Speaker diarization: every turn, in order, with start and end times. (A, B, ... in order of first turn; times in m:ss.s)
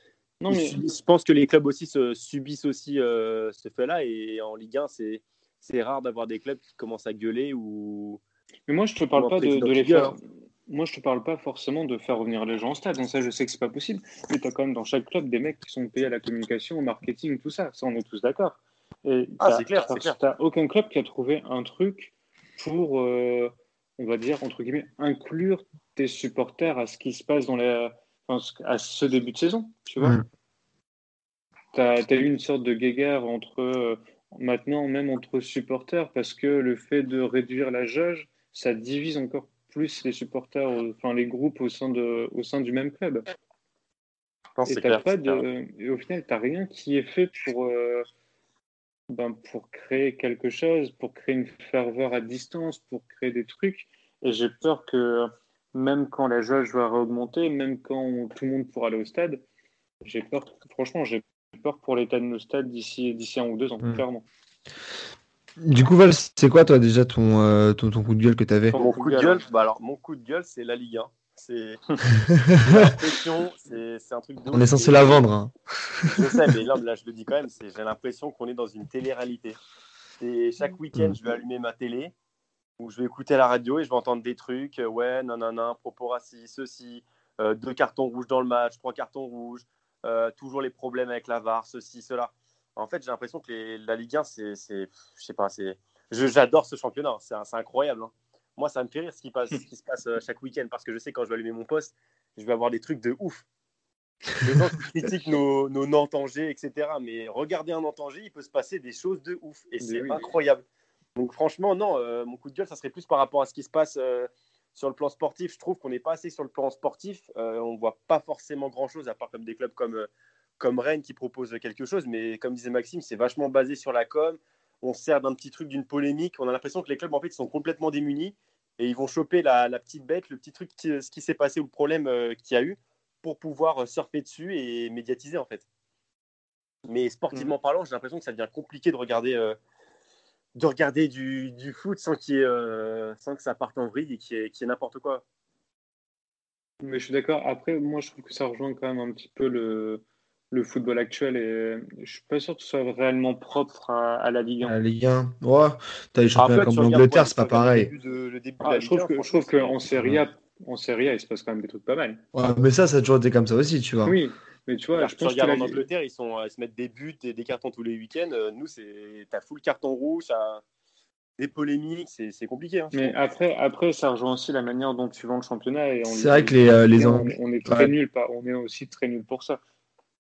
0:00.4-0:00.8 A
0:00.5-0:08.2 B
0:08.7-0:10.2 A
0:09.2-0:10.2 B
0:10.7-0:30.2 A
0:19.4-0:20.2 B
0:31.7-0:43.2 A
0:44.6-0:45.4 B
0:44.7-0:48.1 A
0:49.1-0:59.4 A
1:00.0-1:04.3 A
1:05.6-1:08.8 C
1:08.7-1:09.4 A
1:08.7-1:11.8 B
1:12.2-1:12.9 C
1:12.6-1:15.2 B
1:14.5-1:16.5 C
1:16.1-1:19.6 B
1:20.2-1:22.1 B
1:22.8-1:43.4 B
1:44.4-1:50.6 B
1:49.8-1:50.3 A
1:51.2-2:00.1 B
2:00.6-2:15.6 B
2:16.9-2:19.6 B
2:20.6-2:25.2 B
2:26.8-2:34.8 A
2:34.6-2:37.9 C
2:36.4-2:39.8 B
2:38.6-2:42.2 A
2:42.3-2:44.2 C
2:44.0-2:45.9 A
2:45.0-2:50.6 B
2:51.4-2:53.2 B
2:52.9-2:59.6 A
2:56.1-2:57.9 C